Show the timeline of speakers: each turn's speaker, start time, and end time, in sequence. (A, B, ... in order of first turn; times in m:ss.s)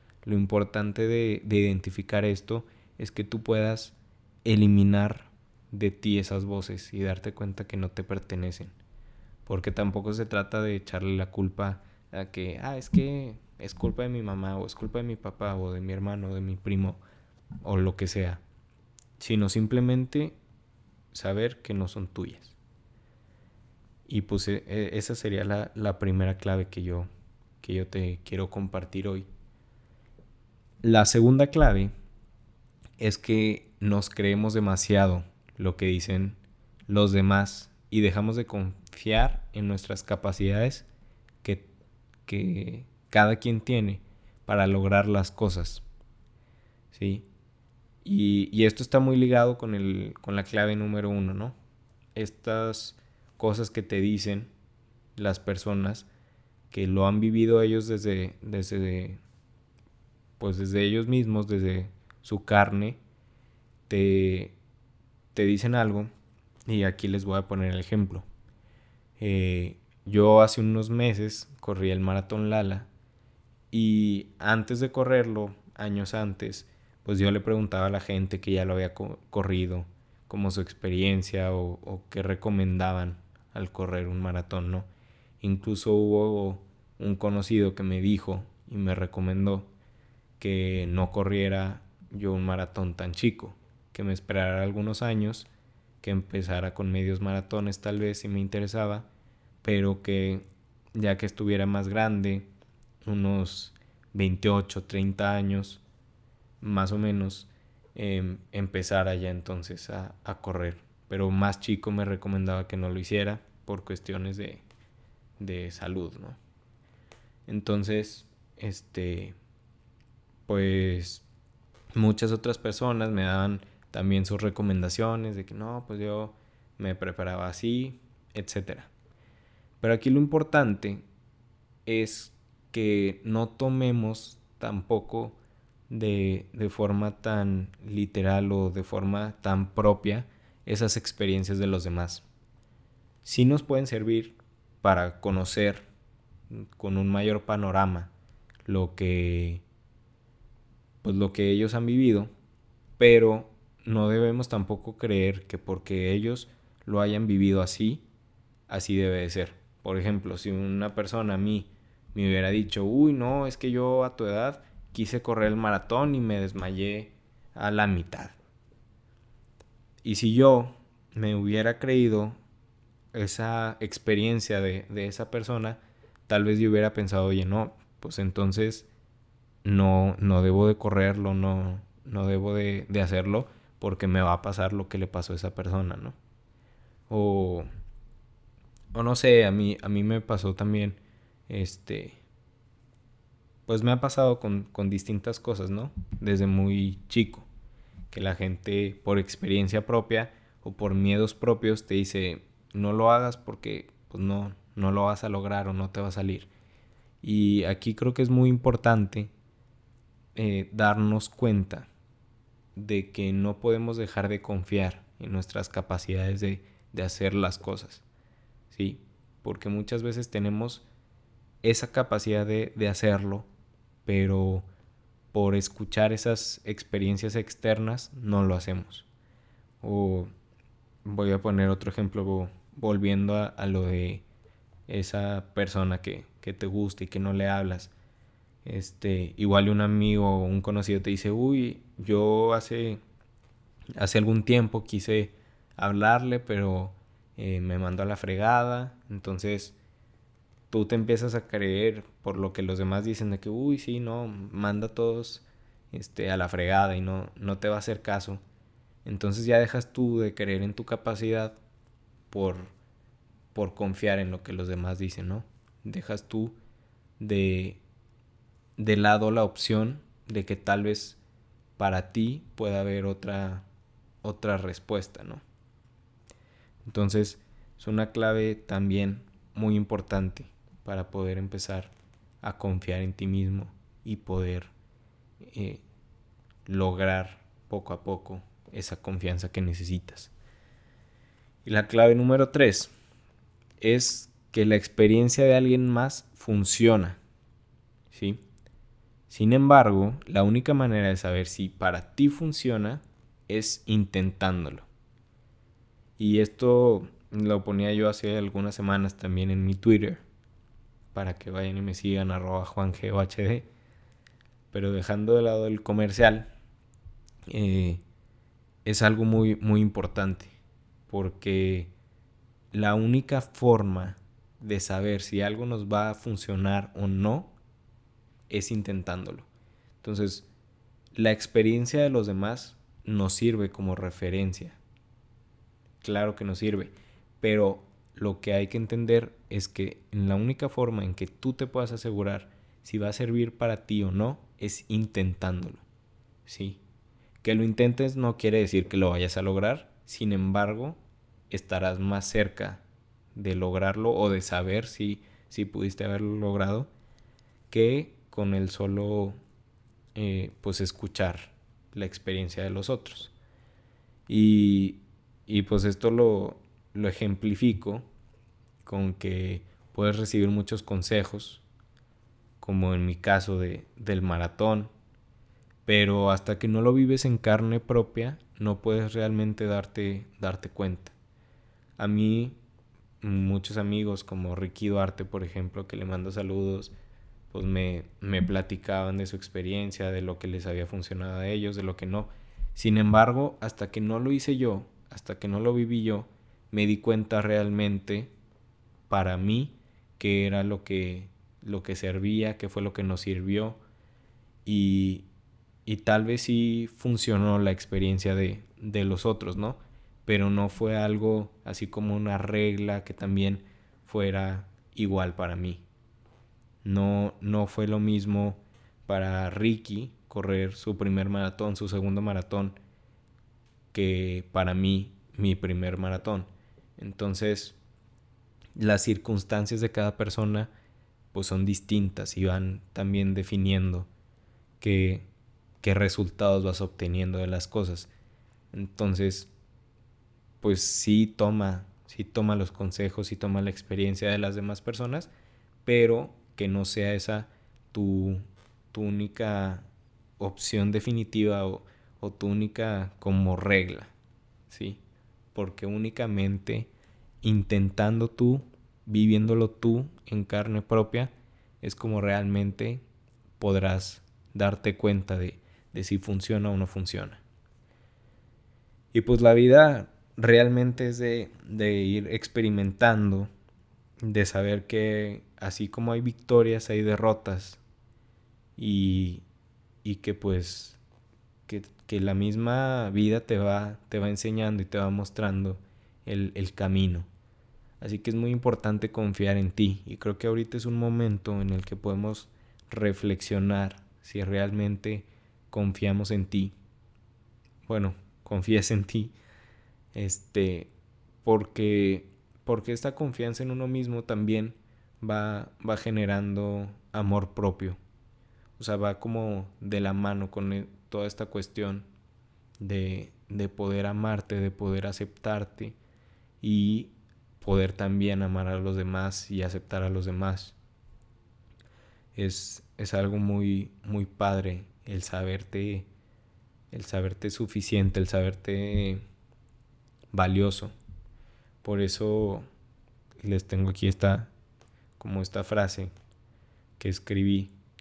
0:00.2-0:08.8 A
0:09.5-0:17.0 A
0:17.6-0:18.4 A
0:19.2-0:20.4 A
0:21.1-0:22.6 A
0:24.1-0:27.1 A
0:27.6-0:29.3 A
0:30.8-0:31.9 A
0:33.0-0:40.9 A
0:41.4-0:41.7 A
0:42.3-0:45.8 A
0:46.9-0:47.3 A
0:48.0-0:51.6 A
0:52.2-0:54.5 A
0:55.2-0:56.1 A
0:56.7-0:59.2 A
1:00.4-1:03.0 A
1:03.9-1:04.6 A
1:05.4-1:06.1 A
1:06.7-1:08.3 A
1:09.2-1:12.9 A
1:13.7-1:24.9 A
1:25.4-1:29.7 A
1:30.4-1:35.5 A
1:36.0-1:39.1 A
1:39.6-1:42.5 A
1:43.0-1:45.8 A
1:46.6-1:54.6 A
1:55.4-1:56.4 A
1:57.5-1:59.4 A
2:00.5-2:01.2 A
2:02.0-2:08.9 A
2:09.8-2:11.0 A
2:11.9-2:22.2 A
2:23.2-2:25.8 A
2:26.5-2:28.1 A
2:28.7-2:29.6 A
2:31.0-2:32.3 A
2:33.0-2:38.0 A
2:38.7-2:48.4 A
2:50.0-2:52.4 A
2:53.1-2:58.9 A
2:59.6-3:06.2 A
3:07.1-3:07.7 A
3:08.9-3:12.2 A
3:13.7-3:17.5 A
3:18.1-3:26.5 A
3:27.2-3:29.3 A
3:30.4-3:31.9 A
3:32.8-3:38.0 A
3:38.7-3:40.8 A
3:41.6-3:43.5 A
3:44.1-3:44.7 A
3:45.3-3:49.1 A
3:49.8-3:50.3 A
3:51.0-3:54.2 A
3:54.9-3:57.9 A
3:58.6-4:03.0 A
4:04.0-4:09.8 A
4:10.7-4:18.4 A
4:19.0-4:21.6 A
4:22.3-4:22.7 A
4:23.5-4:26.6 A
4:27.2-4:27.8 A
4:28.8-4:31.2 A
4:31.8-4:33.7 A
4:34.2-4:35.4 A
4:36.9-4:44.7 A
4:45.4-4:45.8 A
4:46.7-4:50.3 A
4:51.6-4:52.9 A
4:53.8-4:57.2 A
4:58.1-4:58.4 A
4:59.3-5:04.9 A
5:06.2-5:10.2 A
5:11.1-5:13.7 A
5:14.7-5:16.5 A
5:17.5-5:18.0 A
5:18.8-5:20.6 A
5:21.1-5:21.9 A
5:22.7-5:27.6 A
5:28.5-5:29.5 A
5:30.0-5:30.5 A
5:31.2-5:34.8 A
5:36.0-5:45.8 A
5:46.5-5:46.8 A
5:47.4-5:52.8 A
5:53.4-5:56.9 A
5:57.7-5:59.4 A
6:00.2-6:03.3 A
6:04.3-6:08.1 A
6:08.8-6:11.6 A
6:12.6-6:14.9 A
6:15.9-6:21.1 A
6:22.0-6:22.6 A
6:23.2-6:26.9 A
6:27.5-6:38.3 A
6:39.1-6:43.8 A
6:44.7-6:45.3 A
6:45.9-6:55.8 A
6:56.8-7:02.8 A
7:03.9-7:07.8 A
7:08.8-7:10.7 A
7:11.3-7:14.1 A
7:14.8-7:15.3 A
7:15.8-7:18.1 A
7:18.7-7:19.5 A
7:20.6-7:25.3 A
7:25.9-7:29.9 A
7:30.4-7:34.1 A
7:34.7-7:35.0 A
7:35.6-7:36.9 A
7:37.4-7:43.0 A
7:43.6-7:47.4 A
7:49.1-7:53.5 A
7:54.2-7:57.8 A
7:58.8-7:59.4 A
8:00.0-8:01.0 A
8:01.7-8:07.3 A
8:08.0-8:16.8 A
8:17.9-8:19.3 A
8:20.1-8:20.9 A
8:21.4-8:28.0 A
8:28.8-8:32.1 A
8:32.8-8:36.0 A
8:36.6-8:40.8 A
8:42.4-8:46.1 A
8:46.9-8:49.2 A
8:50.3-8:51.0 A
8:51.8-8:52.7 A
8:53.4-8:54.5 A
8:55.2-8:56.1 A
8:57.0-8:57.7 A